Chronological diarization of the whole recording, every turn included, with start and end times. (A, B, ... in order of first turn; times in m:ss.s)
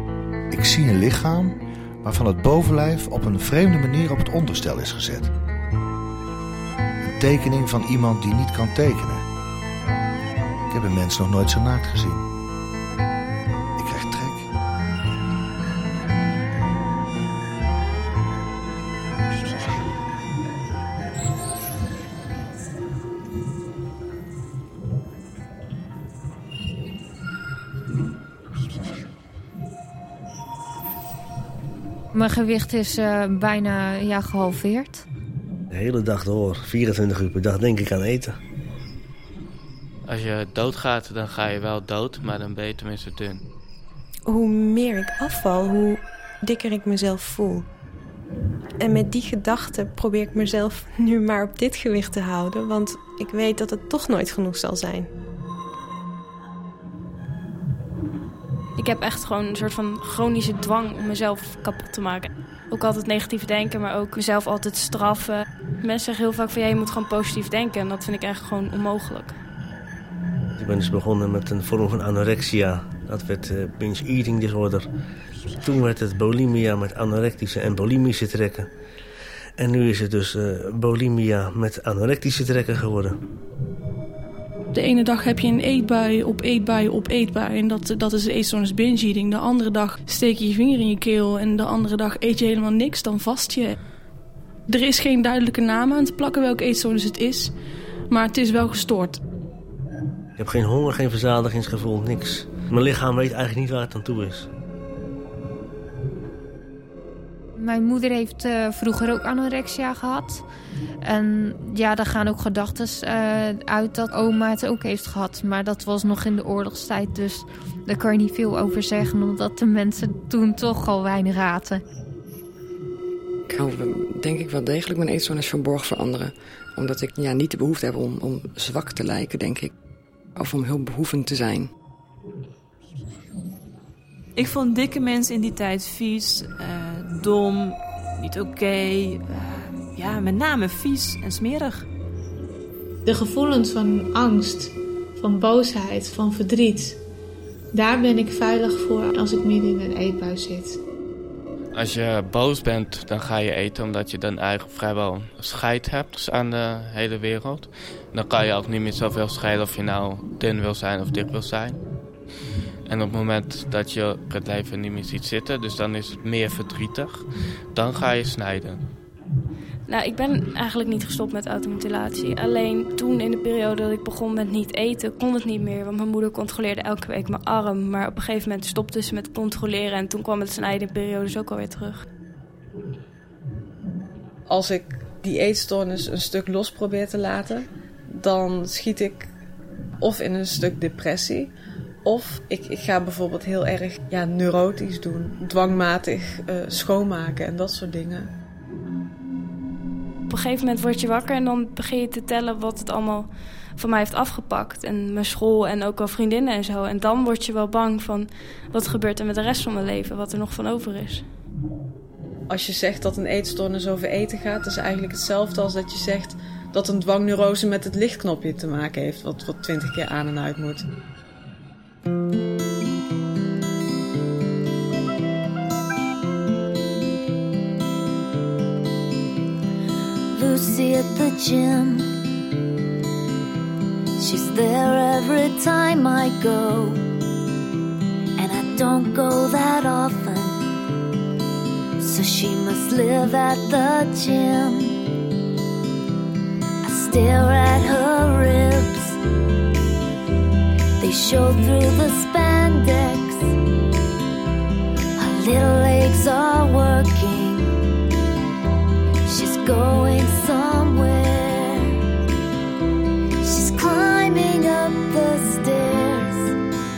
0:00.5-0:05.3 A
0:07.0-0:09.2 A
0:10.7-0:12.3 A
0:13.8-0:14.5 A
0:32.1-0:35.0 B
0:35.7-0:38.4 C
0:40.1-0:43.4 D
0:44.3-0:47.7 E
0:48.8-0:55.1 E
0:58.8-1:09.4 F
1:10.6-1:14.9 C
1:15.5-1:18.7 C
1:19.6-1:23.2 C
1:24.7-1:33.8 G
1:34.7-1:37.5 G
1:38.1-1:39.2 G
1:40.4-1:44.5 C
1:47.6-1:50.4 B
1:51.0-2:01.8 B
2:03.5-2:09.7 H
2:10.4-2:11.7 H
2:14.4-2:21.9 I
2:23.0-2:27.0 J
2:27.7-2:30.8 J
2:31.7-2:41.8 D
2:42.9-2:48.8 D
2:49.9-3:02.0 F
3:04.5-3:09.3 K
3:10.0-3:11.5 K
3:12.0-3:18.3 K
3:20.3-3:31.3 F
3:32.5-3:40.9 K
3:50.3-3:52.1 L
3:54.2-3:57.0 L
3:58.4-4:00.7 L
4:02.0-4:05.0 L
4:06.8-4:09.2 L
4:11.0-4:13.5 L
4:15.2-4:17.8 L
4:19.2-4:22.0 L
4:23.4-4:26.5 L